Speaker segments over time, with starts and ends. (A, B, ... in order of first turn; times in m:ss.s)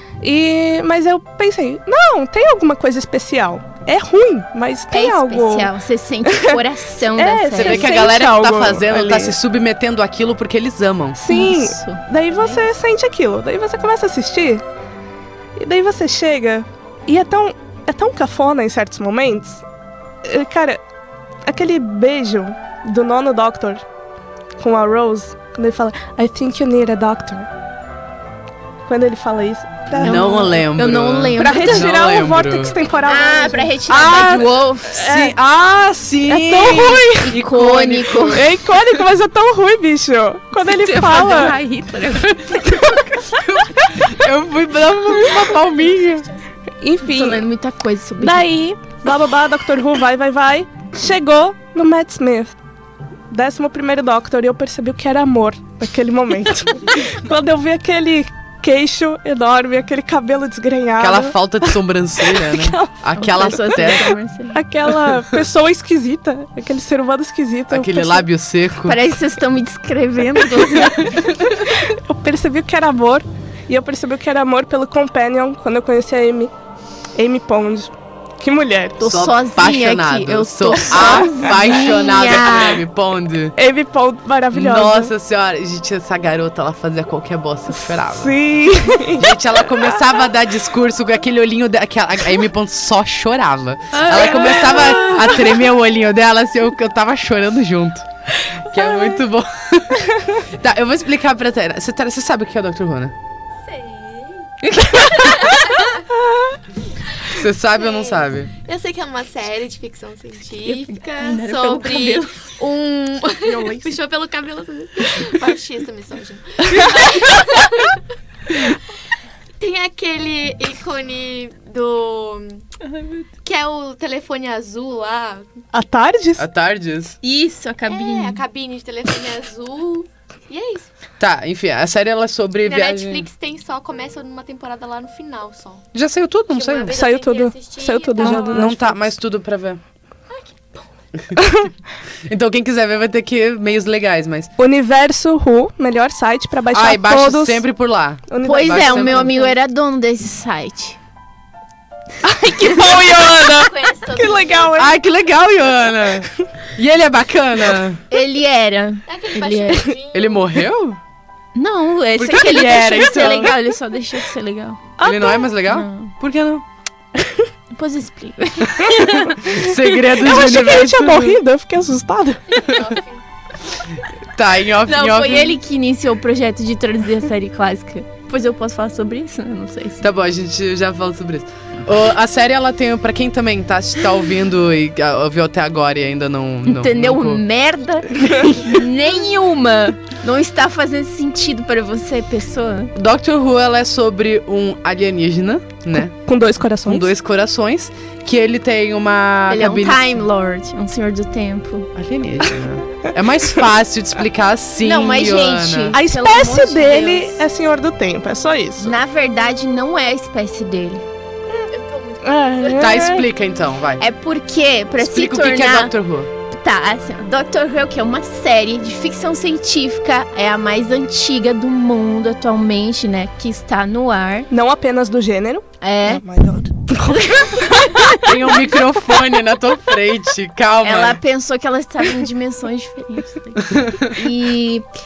0:00.2-0:05.7 A
0:04.9-0:08.0 B
0:06.3-0:06.6 A
0:07.2-0:09.4 A
0:07.6-0:11.2 C
0:11.2-0:14.6 A
0:11.3-0:12.6 B
0:15.6-0:19.6 A
0:20.2-0:20.8 A
0:21.5-0:23.8 A
0:24.6-0:27.5 A
0:28.9-0:30.6 A
0:30.0-0:32.8 C
0:30.0-0:31.9 B
0:31.4-0:35.4 A
0:33.1-0:34.9 B
0:33.9-0:38.4 C
0:36.3-0:37.4 A
0:37.2-0:38.4 B
0:38.3-0:41.6 A
0:40.6-0:43.0 B
0:43.3-0:46.3 C
0:46.8-0:47.4 A
0:47.1-0:48.5 B
0:48.2-0:52.6 A
0:53.3-1:03.0 A
1:01.0-1:04.1 C
1:03.2-1:04.6 B
1:04.5-1:08.3 A
1:07.7-1:09.0 C
1:08.8-1:11.2 B
1:10.8-1:16.5 A
1:17.2-1:19.0 A
1:19.0-1:22.8 B
1:19.0-1:23.6 C
1:21.0-1:21.3 A
1:23.6-1:25.1 A
1:24.5-1:38.1 C
1:28.0-1:29.3 A
1:33.9-1:35.2 B
1:34.5-1:34.9 A
1:38.6-1:43.2 C
1:43.6-1:44.5 D
1:44.6-1:45.6 B
1:47.3-1:48.5 C
1:47.7-1:58.0 D
1:50.7-1:52.4 B
1:53.5-1:53.9 A
1:56.7-1:57.2 A
1:59.6-2:02.7 D
2:03.4-2:05.5 D
2:05.7-2:06.5 A
2:06.4-2:07.2 C
2:07.2-2:08.4 B
2:07.9-2:10.9 D
2:11.2-2:13.3 C
2:12.6-2:15.9 D
2:15.9-2:17.0 C
2:16.5-2:18.8 D
2:16.9-2:19.0 A
2:18.2-2:19.8 C
2:20.3-2:20.8 D
2:21.4-2:21.7 A
2:22.3-2:24.5 C
2:24.6-2:27.6 A
2:26.7-2:29.4 C
2:28.3-2:29.6 A
2:28.4-2:31.0 B
2:32.2-2:35.0 A
2:33.3-2:34.9 D
2:34.8-2:38.0 C
2:38.1-2:39.9 B
2:39.1-2:40.6 D
2:40.1-2:41.0 C
2:41.6-2:44.8 B
2:42.2-2:43.6 C
2:42.4-2:43.6 A
2:45.0-2:45.5 A
2:45.0-2:46.6 C
2:45.7-2:46.1 B
2:47.7-2:49.3 B
2:48.8-2:51.4 C
2:49.0-2:52.4 A
2:52.5-2:53.2 D
2:54.4-2:55.6 C
2:54.9-3:00.1 B
3:00.0-3:07.4 C
3:06.7-3:12.9 B
3:13.0-3:16.1 C
3:16.2-3:17.1 A
3:16.8-3:20.2 C
3:19.5-3:21.9 B
3:22.0-3:26.0 C
3:24.8-3:27.4 B
3:25.9-3:29.0 A
3:28.8-3:31.0 B
3:31.7-3:33.1 D
3:32.2-3:33.2 A
3:32.8-3:34.0 C
3:34.0-3:35.9 B
3:35.0-3:36.3 C
3:36.5-3:44.5 B
3:44.5-3:47.9 A
3:45.8-3:46.2 B
3:47.0-3:48.3 B
3:48.2-3:51.2 C
3:50.8-3:54.8 B
3:53.7-3:54.1 C